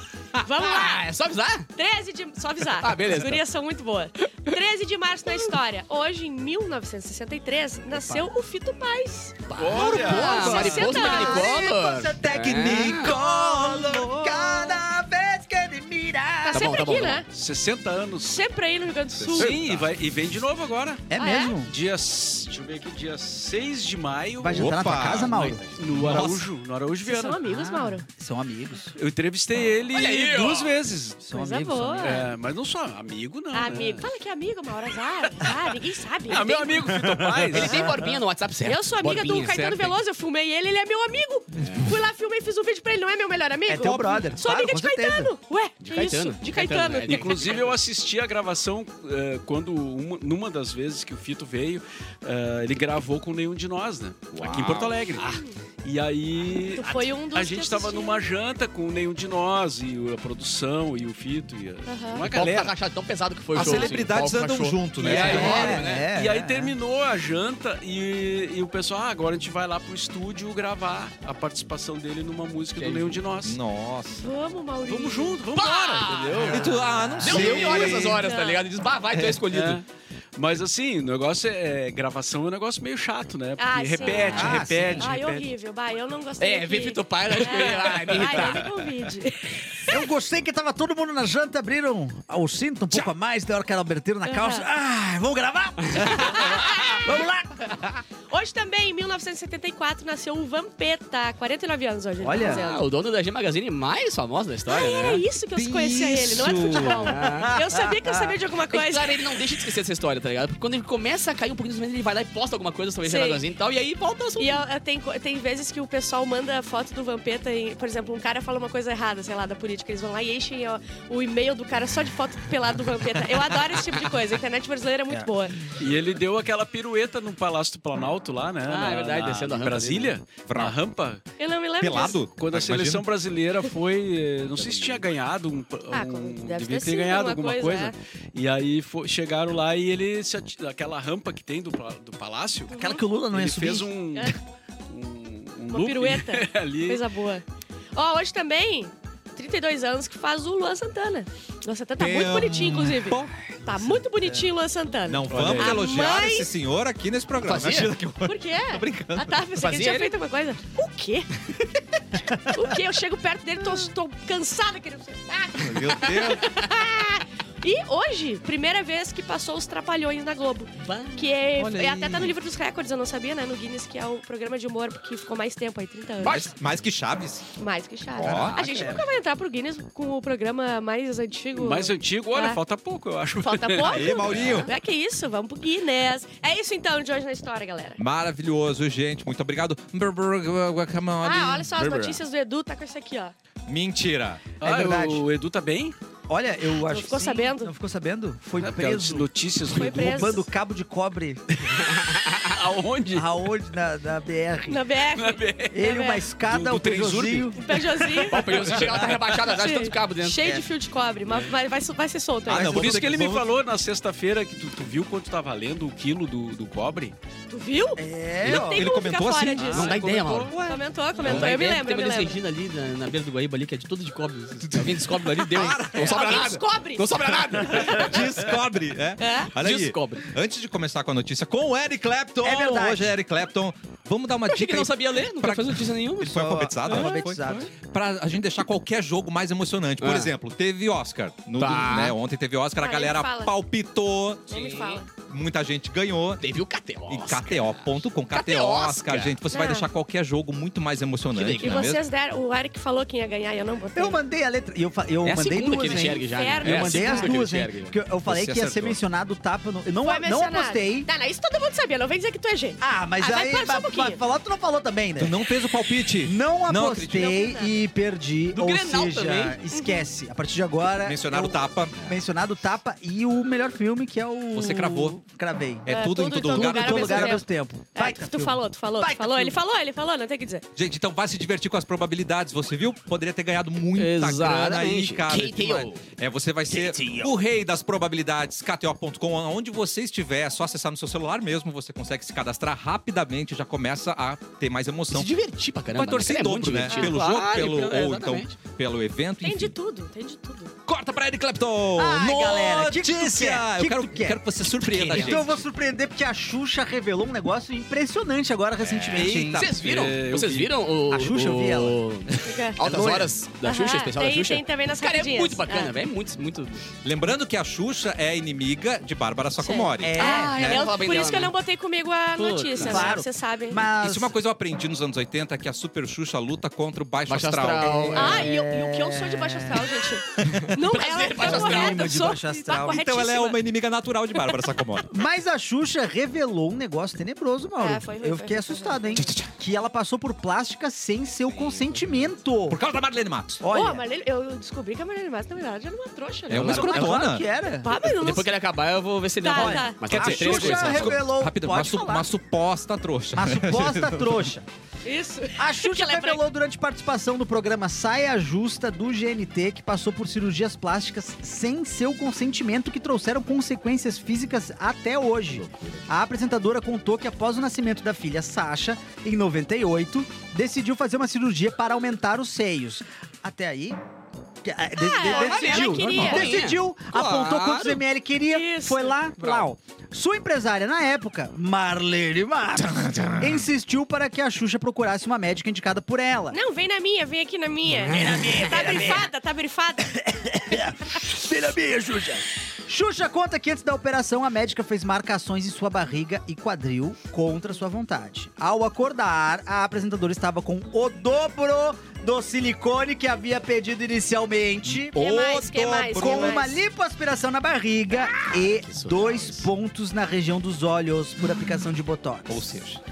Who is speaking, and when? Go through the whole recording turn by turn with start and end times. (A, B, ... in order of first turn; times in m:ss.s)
0:00.4-0:01.0 A
0:00.5-0:01.7 B
0:01.7-0:11.6 A
0:02.8-0:03.4 B
0:07.9-0:08.3 B
0:09.5-0:13.2 B
0:09.6-0:10.9 C
0:09.7-0:16.7 D
0:12.9-0:14.8 A
0:16.4-0:17.3 A
0:16.5-0:17.2 B
0:17.2-0:18.4 C
0:18.2-0:19.6 A
0:19.2-0:19.9 E
0:19.3-0:21.0 C
0:21.1-0:21.7 D
0:21.2-0:21.5 A
0:21.5-0:27.4 C
0:24.4-0:26.3 D
0:24.5-0:25.4 E
0:25.0-0:25.8 B
0:26.0-0:26.4 E
0:27.0-0:28.0 A
0:27.4-0:28.9 D
0:29.0-0:31.2 C
0:29.9-0:30.7 B
0:31.2-0:32.2 D
0:31.3-0:32.3 A
0:32.0-0:34.1 C
0:33.5-0:36.9 A
0:33.7-0:34.0 B
0:36.3-0:37.8 C
0:36.8-0:38.1 D
0:37.5-0:40.0 B
0:37.6-0:37.9 A
0:38.6-0:47.4 A
0:41.6-0:42.0 B
0:43.7-0:45.3 D
0:45.8-0:47.8 B
0:47.0-0:55.3 C
0:54.4-0:55.4 B
0:54.4-0:55.1 E
0:55.2-0:55.6 A
0:55.8-1:02.8 C
0:56.7-0:58.3 A
1:01.8-1:02.3 A
1:02.2-1:06.0 B
1:03.5-1:05.8 E
1:03.6-1:03.9 D
1:05.0-1:13.6 C
1:05.1-1:06.7 D
1:12.8-1:13.2 B
1:13.4-1:14.3 E
1:14.1-1:15.4 A
1:14.9-1:18.2 C
1:15.5-1:19.8 B
1:16.4-1:18.3 E
1:18.0-1:18.6 A
1:19.4-1:25.5 C
1:23.6-1:30.0 A
1:24.1-1:25.1 D
1:26.4-1:28.8 B
1:28.1-1:28.5 C
1:29.9-1:37.8 D
1:34.2-1:34.6 A
1:35.8-1:36.2 B
1:36.2-1:37.2 A
1:38.3-1:42.8 A
1:42.2-1:42.6 D
1:42.4-1:45.2 B
1:44.7-1:49.2 A
1:45.6-1:46.9 E
1:46.3-1:48.3 D
1:46.7-1:47.6 B
1:48.7-1:54.6 B
1:53.0-1:53.4 A
1:54.4-2:05.7 A
2:05.8-2:11.2 C
2:08.6-2:10.1 B
2:10.5-2:10.8 E
2:11.4-2:12.2 A
2:11.8-2:13.0 E
2:12.3-2:27.1 C
2:14.5-2:15.0 B
2:15.9-2:17.9 A
2:22.7-2:23.0 A
2:22.8-2:23.9 D
2:25.7-2:27.4 A
2:27.9-2:36.5 A
2:32.0-2:33.5 E
2:35.1-2:39.4 E
2:35.3-2:35.8 B
2:37.4-2:37.9 B
2:38.2-2:41.3 A
2:39.6-2:40.1 B
2:42.4-2:56.5 A
2:45.6-2:46.6 E
2:50.8-2:51.3 B
2:51.6-2:52.3 E
2:56.2-2:57.5 E
2:56.2-2:56.5 B
2:57.6-3:02.6 A
2:58.2-2:58.9 E
2:58.2-2:59.0 B
2:58.2-2:59.0 D
3:01.5-3:04.6 C
3:03.4-3:08.0 A
3:03.8-3:04.7 E
3:08.0-3:12.2 E
3:11.2-3:13.3 A
3:13.6-3:14.5 E
3:14.6-3:15.9 C
3:14.6-3:15.2 D
3:16.3-3:21.4 D
3:16.8-3:17.7 A
3:18.6-3:20.4 C
3:19.6-3:20.4 A
3:21.7-3:23.4 C
3:21.8-3:22.5 B
3:23.1-3:24.8 D
3:24.7-3:26.2 A
3:25.1-3:25.9 C
3:25.7-3:27.6 D
3:26.4-3:29.2 C
3:27.5-3:28.4 A
3:28.3-3:30.6 B
3:29.4-3:33.0 A
3:32.5-3:33.5 E
3:32.5-3:37.1 C
3:37.5-3:40.0 A
3:38.0-3:39.0 D
3:38.4-3:41.5 E
3:39.6-3:40.6 B
3:39.7-3:40.5 C
3:40.5-3:42.4 A
3:41.2-3:48.3 B
3:44.6-3:46.6 E
3:46.0-3:47.1 A
3:47.6-4:04.6 E
3:47.6-3:48.2 A
3:49.2-3:49.5 A
3:49.6-3:50.3 B
3:52.4-3:53.2 D
3:54.5-3:57.2 B
3:56.2-3:57.7 D
4:00.0-4:00.3 B
4:01.6-4:02.2 B
4:02.8-4:03.5 A
4:04.5-4:05.1 A
4:04.5-4:05.0 B
4:05.2-4:06.4 E
4:06.4-4:09.4 B
4:07.1-4:12.0 E
4:09.5-4:09.9 A
4:11.3-4:12.0 B
4:11.6-4:14.2 A
4:14.0-4:21.1 D
4:15.2-4:18.0 B
4:16.2-4:17.3 A
4:18.2-4:19.0 E
4:20.0-4:24.2 A
4:22.8-4:25.4 D
4:25.2-4:27.2 E
4:26.2-4:35.9 D
4:27.1-4:27.8 A
4:28.5-4:29.6 B
4:29.7-4:30.0 A
4:31.0-4:32.0 E
4:34.5-4:35.2 E
4:35.8-4:37.4 E
4:35.9-4:40.6 A
4:36.5-4:39.6 D
4:40.8-4:55.3 E
4:43.9-4:46.0 B
4:46.7-4:47.3 B
4:55.1-4:58.5 B
4:55.9-4:59.7 E
4:56.9-4:57.1 A
4:59.4-5:00.7 A
5:00.8-5:05.6 E
5:01.9-5:04.4 D
5:04.8-5:05.6 B
5:05.0-5:09.7 D
5:08.8-5:09.7 E
5:09.1-5:16.9 B
5:09.2-5:10.7 C
5:11.1-5:12.0 D
5:12.4-5:12.8 A
5:12.8-5:13.3 D
5:13.6-5:15.9 A
5:17.0-5:20.8 E
5:19.6-5:23.8 A
5:20.0-5:20.8 D
5:20.2-5:21.5 B
5:22.4-5:23.2 B
5:22.8-5:24.3 D
5:23.9-5:28.2 E
5:27.3-5:28.5 B
5:27.8-5:30.0 D
5:28.2-5:33.6 A
5:30.6-5:32.2 B
5:31.4-5:33.0 D
5:32.8-5:35.1 E
5:35.1-5:42.8 D
5:37.8-5:39.2 A
5:39.2-5:39.5 E
5:41.5-5:42.2 B
5:42.7-5:43.6 E
5:43.6-5:44.0 D
5:43.7-5:47.1 A
5:46.5-5:47.3 B
5:46.5-5:47.4 E
5:46.6-5:47.9 D
5:47.8-5:48.5 A
5:47.9-5:51.2 B
5:49.4-5:50.0 A
5:49.5-5:52.3 D
5:50.1-5:54.5 E
5:53.3-5:54.6 D
5:55.0-5:56.4 A
5:55.6-6:14.0 D
6:05.5-6:06.0 B
6:14.6-6:26.6 D
6:15.0-6:16.5 A
6:15.2-6:18.0 B
6:16.1-6:16.5 E
6:18.5-6:19.2 A
6:19.4-6:19.6 B
6:22.9-6:23.6 E
6:26.5-6:30.2 A
6:28.0-6:29.3 D
6:28.1-6:28.6 B
6:30.1-6:45.2 D
6:44.8-6:46.6 E
6:45.1-6:46.8 A
6:46.1-6:52.8 D
6:48.5-6:49.7 B
6:52.5-6:53.0 E